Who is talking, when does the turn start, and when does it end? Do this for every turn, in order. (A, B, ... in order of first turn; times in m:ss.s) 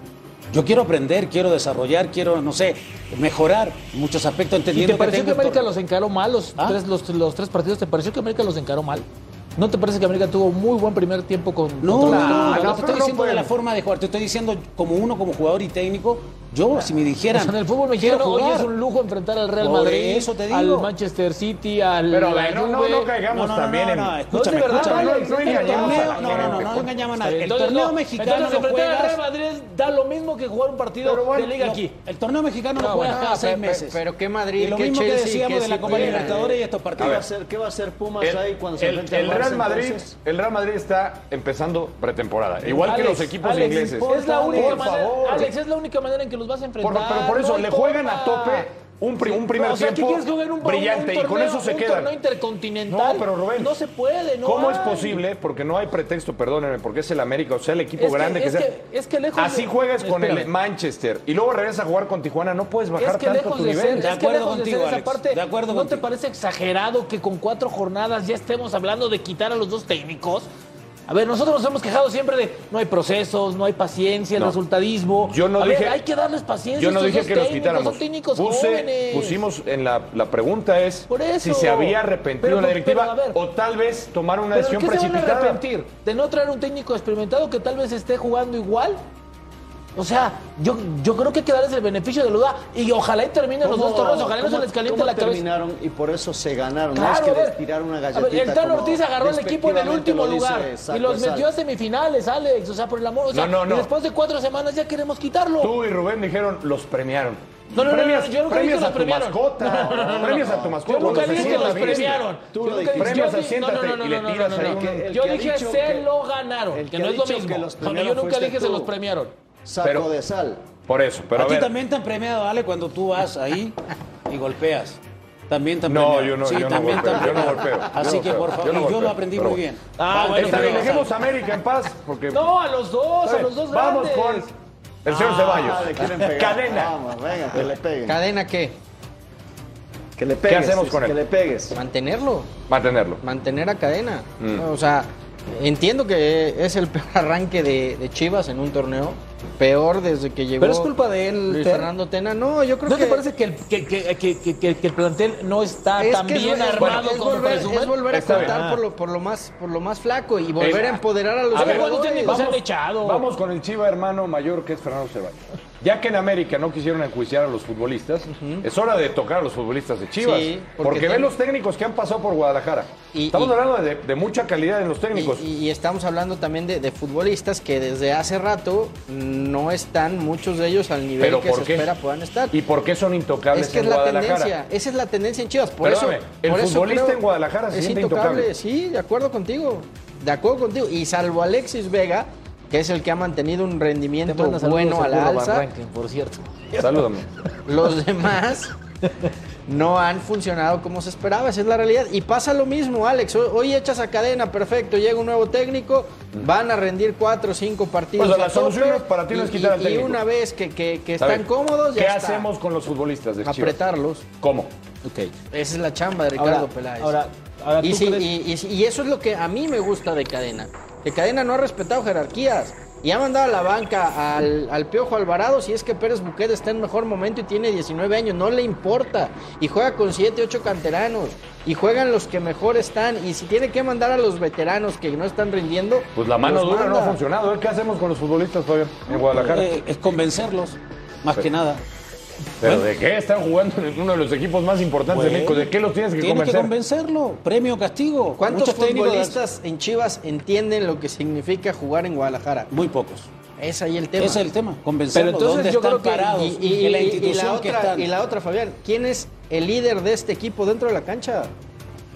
0:00.5-0:05.7 A
0:04.7-0:09.0 B
0:09.6-0:12.9 B
0:11.8-0:18.7 A
0:12.0-0:13.5 C
0:17.3-0:23.1 B
0:19.6-0:20.9 A
0:22.1-0:26.9 C
0:23.3-0:29.2 A
0:24.3-0:31.9 B
0:31.0-0:31.6 C
0:31.6-0:34.0 A
0:32.8-0:33.3 B
0:33.0-0:36.5 D
0:34.6-0:37.2 A
0:35.8-0:40.1 E
0:37.0-0:37.2 C
0:38.2-0:45.5 C
0:42.7-0:48.7 B
0:44.3-0:44.7 A
0:46.8-0:52.1 C
0:49.2-0:55.2 B
0:52.9-0:53.7 C
0:54.4-0:58.7 C
0:58.0-1:00.5 B
0:59.4-1:04.1 C
1:03.0-1:10.5 B
1:04.0-1:06.0 A
1:11.1-1:19.4 B
1:15.2-1:16.0 C
1:16.8-1:25.6 C
1:21.1-1:23.4 B
1:24.5-1:29.0 B
1:30.0-1:35.4 B
1:33.6-1:41.5 E
1:36.9-1:37.6 B
1:38.1-1:45.7 B
1:43.3-1:43.9 C
1:45.6-1:52.3 C
1:47.7-1:59.3 B
1:49.6-1:53.3 E
1:52.9-1:55.0 C
1:54.5-1:56.1 E
1:56.7-1:58.9 E
1:59.6-2:00.6 E
1:59.8-2:00.1 C
2:00.8-2:01.7 C
2:01.3-2:11.1 A
2:05.8-2:09.6 C
2:10.0-2:11.1 B
2:10.3-2:12.5 C
2:12.3-2:14.5 B
2:13.2-2:14.5 C
2:15.0-2:17.0 C
2:15.1-2:18.2 E
2:18.0-2:18.8 D
2:20.2-2:21.7 E
2:20.4-2:21.2 C
2:21.7-2:22.5 D
2:22.7-2:23.2 C
2:23.2-2:30.9 D
2:24.4-2:24.6 C
2:30.6-2:31.9 B
2:31.5-2:33.2 D
2:32.8-2:38.8 B
2:36.0-2:42.4 D
2:36.8-2:37.1 C
2:38.1-2:38.6 C
2:40.6-2:55.4 C
2:41.5-2:43.2 B
2:48.3-2:48.6 D
2:50.2-2:51.3 D
2:53.1-2:53.6 D
2:55.1-3:02.5 D
3:01.2-3:01.9 C
3:02.5-3:04.5 C
3:03.5-3:15.6 D
3:05.8-3:08.5 C
3:14.2-3:17.0 B
3:16.8-3:17.3 C
3:17.7-3:18.7 D
3:19.7-3:32.5 D
3:28.2-3:30.2 C
3:31.2-3:33.8 C
3:33.4-3:34.3 D
3:34.4-3:34.7 C
3:35.0-3:35.3 B
3:35.5-3:37.2 D
3:36.4-3:38.3 B
3:37.8-3:57.2 D
3:56.2-3:59.7 C
3:59.3-4:01.8 A
4:02.6-4:06.7 C
4:05.1-4:09.4 A
4:08.4-4:12.7 D
4:12.7-4:13.3 A
4:13.6-4:14.4 D
4:14.2-4:18.1 A
4:15.1-4:16.4 B
4:16.2-4:21.5 D